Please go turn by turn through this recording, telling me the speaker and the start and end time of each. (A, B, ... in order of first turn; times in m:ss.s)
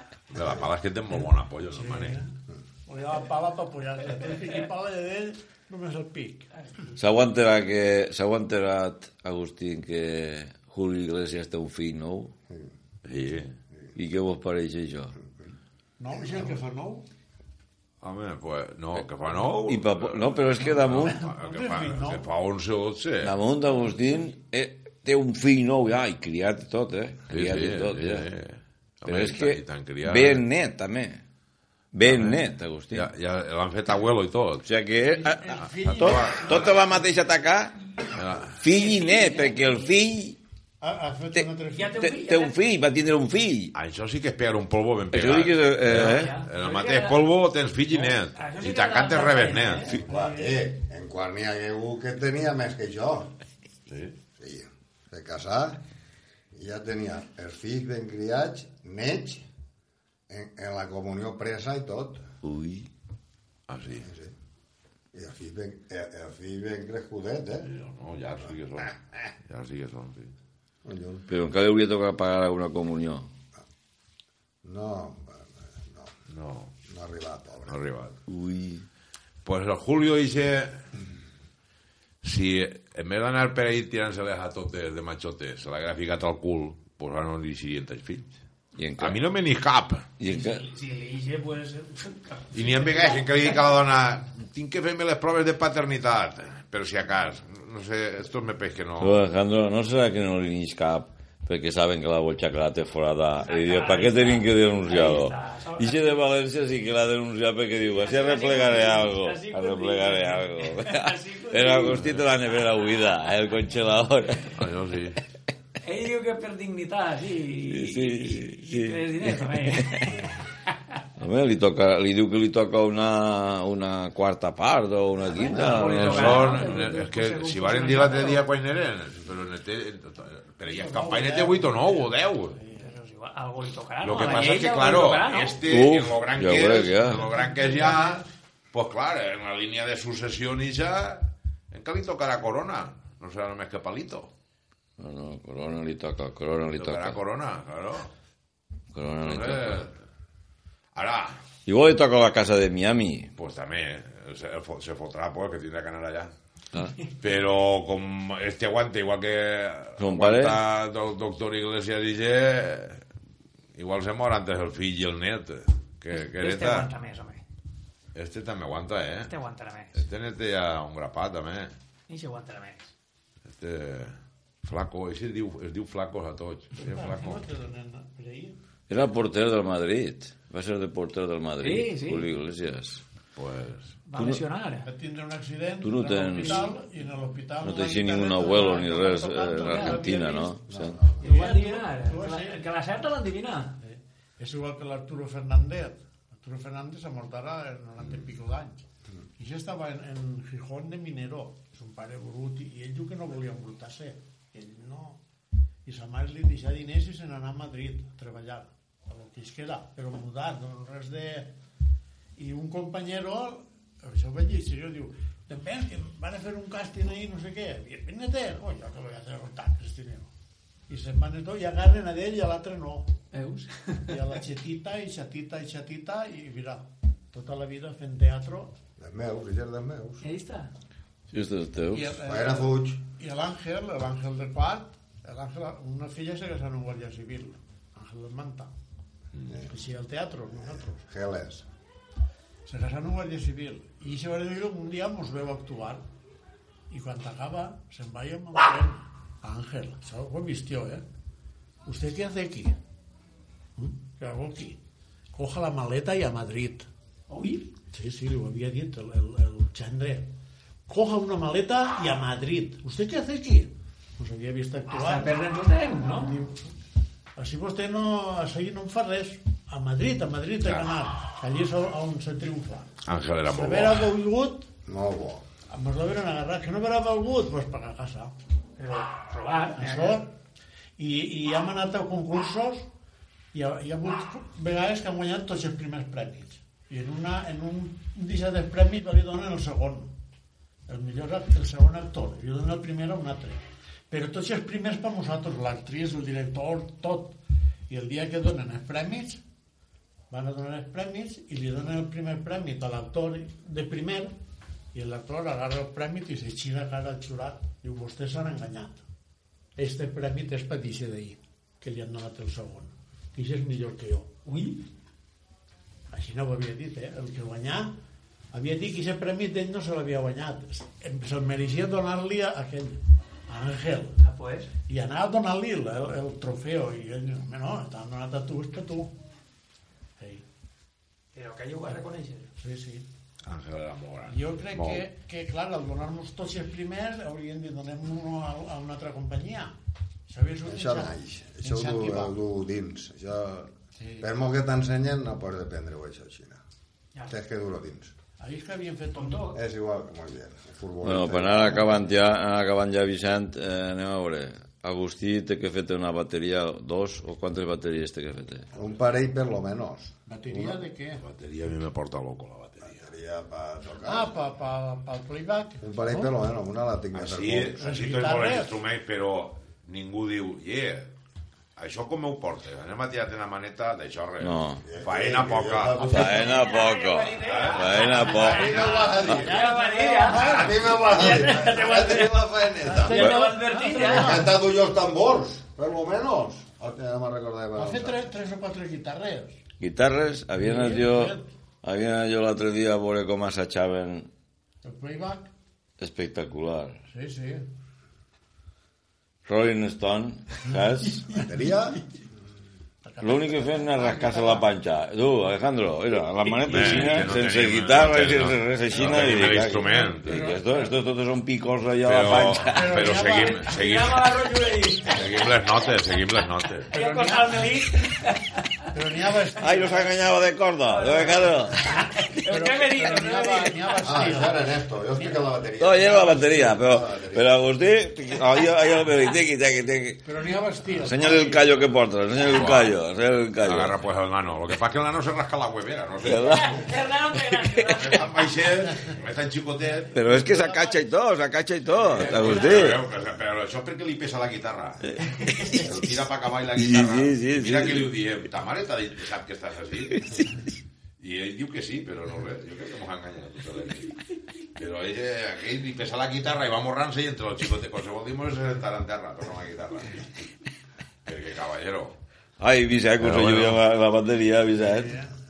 0:00.3-0:02.2 A
0:01.7-0:02.3 B
0:02.9-0:06.5 B
0:06.6-0:06.9 C
0:07.0-0:12.3 D
0:13.0-0:13.5 A
0:14.0-0:15.2 D
0:16.0-0:17.0 B
0:16.2-0:16.4 E
0:18.0-0:23.4 A
0:19.5-0:21.2 D
0:21.1-0:22.3 B
0:23.2-0:28.3 D
0:27.3-0:30.4 A
0:29.0-0:31.2 D
0:31.9-0:33.1 D
0:32.0-0:34.7 A
0:34.6-0:37.8 D
0:35.0-0:36.4 B
0:35.7-0:36.8 A
0:38.1-0:38.6 A
0:38.6-0:40.4 D
0:38.7-0:39.8 C
0:40.8-0:42.0 B
0:41.3-0:43.7 D
0:41.7-0:42.6 C
0:43.7-0:50.0 A
0:45.1-0:46.4 D
0:46.0-0:47.2 C
0:48.1-0:50.4 C
0:49.8-0:50.3 B
0:49.9-0:53.3 E
0:53.9-0:54.2 A
0:54.4-0:55.8 E
0:56.5-0:59.4 E
1:00.3-1:02.2 E
1:02.4-1:02.9 D
1:03.7-1:04.1 A
1:04.0-1:04.3 E
1:05.1-1:07.7 E
1:07.6-1:10.3 A
1:10.8-1:11.3 E
1:11.3-1:13.3 D
1:14.6-1:16.1 E
1:16.3-1:16.7 A
1:16.9-1:17.8 E
1:17.7-1:18.2 A
1:18.3-1:18.9 D
1:19.4-1:20.8 A
1:22.2-1:28.3 A
1:28.8-1:29.2 D
1:29.0-1:30.1 A
1:30.2-1:30.6 D
1:30.2-1:33.5 C
1:32.5-1:39.2 A
1:39.0-1:54.6 D
1:43.4-1:46.3 C
1:47.8-1:53.0 C
1:51.9-1:52.2 A
1:54.6-1:55.2 A
1:55.8-2:00.3 C
1:57.7-2:00.2 D
2:01.2-2:06.8 D
2:05.3-2:08.4 C
2:05.7-2:12.6 A
2:10.6-2:13.0 B
2:12.8-2:15.6 C
2:14.0-2:24.3 A
2:15.7-2:17.3 D
2:17.4-2:18.3 B
2:25.0-2:27.2 D
2:26.8-2:28.1 A
2:28.9-2:29.9 D
2:29.2-2:29.9 A
2:31.0-2:31.4 A
2:31.7-2:33.3 D
2:33.4-2:36.3 A
2:37.2-2:43.0 A
2:40.0-2:40.6 D
2:43.8-2:46.9 A
2:46.1-2:47.4 C
2:48.2-2:49.3 A
2:49.3-2:50.0 C
2:49.9-2:51.7 A
2:52.1-2:52.9 C
2:53.4-2:57.4 A
2:56.8-2:58.6 B
2:58.9-3:03.0 D
3:01.6-3:02.3 C
3:03.4-3:04.0 A
3:04.1-3:04.9 C
3:04.2-3:04.4 D
3:04.8-3:10.6 B
3:05.8-3:06.7 D
3:06.4-3:06.7 C
3:07.6-3:11.0 D
3:09.6-3:10.0 C
3:10.7-3:11.2 E
3:11.2-3:12.6 B
3:11.2-3:13.8 C
3:13.8-3:18.8 B
3:19.4-3:25.2 B
3:25.9-3:31.6 B
3:32.4-3:40.3 B
3:40.9-3:43.1 B
3:43.3-3:44.2 C
3:44.1-3:48.7 B
3:49.0-3:50.2 E
3:50.2-3:50.7 C
3:51.3-3:52.2 D
3:51.9-3:58.7 B
3:52.2-3:53.0 E
3:59.7-4:01.0 B
4:00.6-4:01.6 E
4:02.7-4:06.0 B
4:06.9-4:11.0 B
4:11.9-4:12.8 B
4:13.8-4:14.8 B
4:15.3-4:16.9 B
4:17.3-4:17.6 C
4:17.8-4:20.3 B
4:20.9-4:25.4 B
4:24.9-4:26.4 C
4:26.1-4:26.6 B
4:27.4-4:32.9 B
4:30.6-4:30.9 A
4:33.1-4:34.2 A
4:33.5-4:34.7 B
4:34.9-4:35.4 E
4:35.7-4:38.3 B
4:38.8-4:40.2 C
4:39.7-4:40.3 B
4:41.0-4:42.9 B
4:43.5-4:50.1 B
4:50.9-4:57.4 B
4:57.9-4:59.4 B
5:00.3-5:04.3 B
5:04.9-5:09.0 B
5:09.8-5:14.3 B
5:14.4-5:14.8 C
5:16.1-5:17.9 B
5:18.5-5:24.2 B
5:24.2-5:24.7 C
5:24.9-5:29.1 B
5:30.2-5:30.4 B
5:31.3-5:32.5 C
5:32.6-5:33.1 B
5:33.5-5:35.1 A
5:34.3-5:39.8 B
5:40.3-5:42.4 B
5:40.6-5:46.6 E
5:44.0-5:44.3 B
5:47.3-5:48.1 E
5:48.4-5:49.6 B
5:49.2-5:49.6 C
5:49.5-5:52.1 E
5:51.0-5:58.7 D
5:58.7-6:00.8 E
6:00.3-6:01.2 B
6:01.2-6:03.1 A
6:02.8-6:04.3 E
6:04.0-6:06.3 B
6:05.8-6:07.8 E
6:07.1-6:11.1 A
6:07.8-6:08.7 B
6:11.8-6:16.2 A
6:14.4-6:14.8 D
6:14.8-6:16.6 E
6:16.1-6:18.7 D
6:16.2-6:24.5 C
6:17.4-6:19.2 A
6:18.3-6:19.6 E
6:18.6-6:21.5 B
6:20.3-6:23.3 E
6:22.8-6:24.6 B
6:24.0-6:28.3 E
6:27.8-6:29.6 B
6:29.8-6:34.3 D
6:30.6-6:31.5 B
6:34.8-6:35.5 B
6:36.0-6:37.0 D
6:37.1-6:37.7 B
6:39.4-6:41.4 D
6:41.3-6:42.0 E
6:43.0-6:44.7 B
6:43.2-6:53.1 D
6:46.5-6:47.0 C
6:46.7-6:50.4 A
6:49.9-6:50.9 B
6:52.0-6:54.3 A
6:52.6-6:53.7 B
6:53.3-6:55.8 C
6:55.1-6:56.9 A
6:56.9-6:57.8 B
6:56.9-6:58.8 C
6:58.9-7:00.1 B
6:59.6-7:01.9 D
7:00.9-7:04.1 C
7:02.0-7:05.4 B
7:04.0-7:07.5 E
7:05.8-7:10.3 D
7:10.2-7:11.7 B
7:10.9-7:14.0 D
7:12.4-7:13.0 A
7:13.6-7:16.7 A
7:16.2-7:18.0 D
7:16.4-7:18.4 C
7:18.0-7:20.2 A
7:20.1-7:23.0 D
7:20.2-7:21.0 B
7:22.0-7:25.1 A
7:25.1-7:26.2 D
7:25.4-7:25.7 C
7:25.7-7:30.3 A
7:26.7-7:28.1 D
7:30.1-7:30.6 D
7:31.2-7:34.2 A
7:34.8-7:40.3 A
7:41.3-7:42.2 A
7:42.6-7:45.2 D
7:43.2-7:43.8 A
7:44.8-7:45.3 B